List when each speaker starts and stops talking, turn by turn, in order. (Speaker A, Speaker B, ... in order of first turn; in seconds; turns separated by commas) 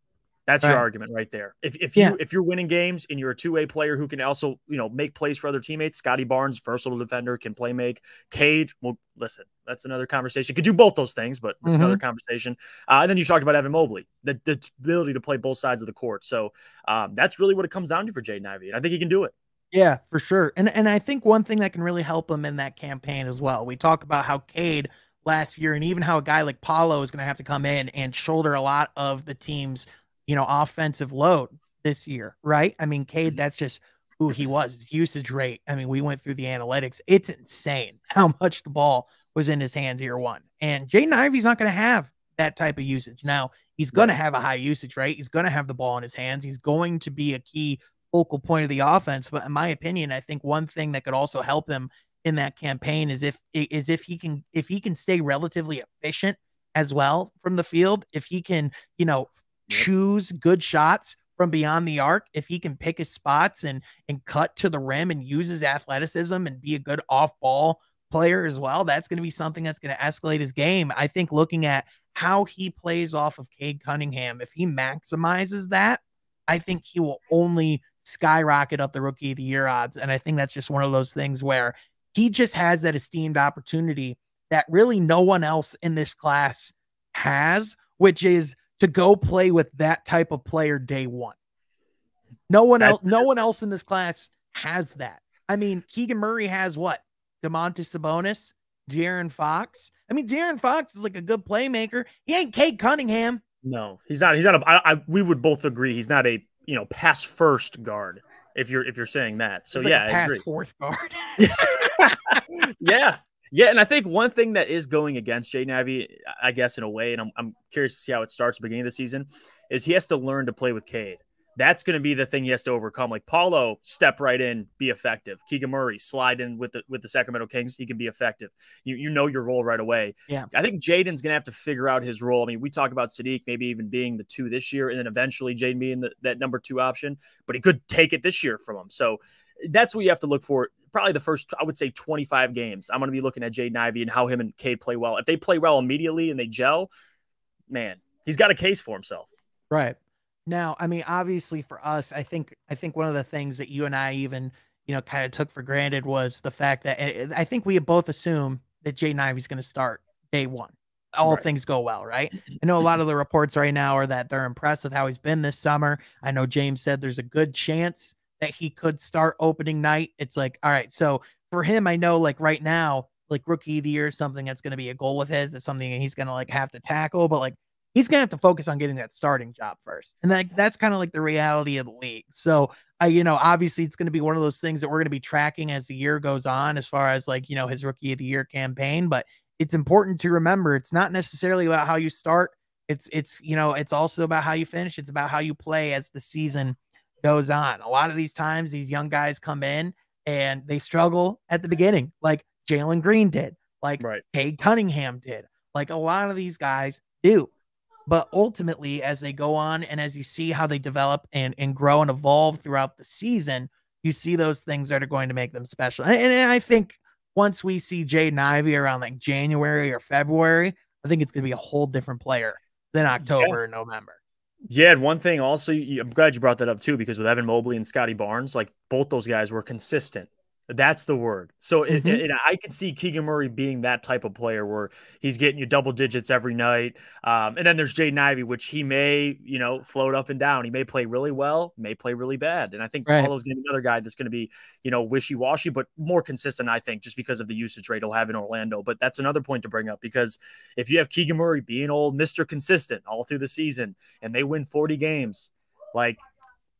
Speaker A: 0.5-19.3, Speaker B: 11.6-12.0, Speaker B: 19.7-91.3, Speaker B: 92.5-103.4, Speaker A: 92.8-93.2, Speaker A: 103.6-110.4, Speaker B: 109.7-112.4, Speaker A: 111.4-146.9, Speaker A: 147.7-149.3, Speaker B: 149.7-207.5, Speaker A: 204.0-204.2, Speaker B: 208.1-224.2, Speaker A: 223.2-223.6, Speaker A: 224.7-256.2, Speaker B: 231.9-232.2, Speaker B: 243.1-243.3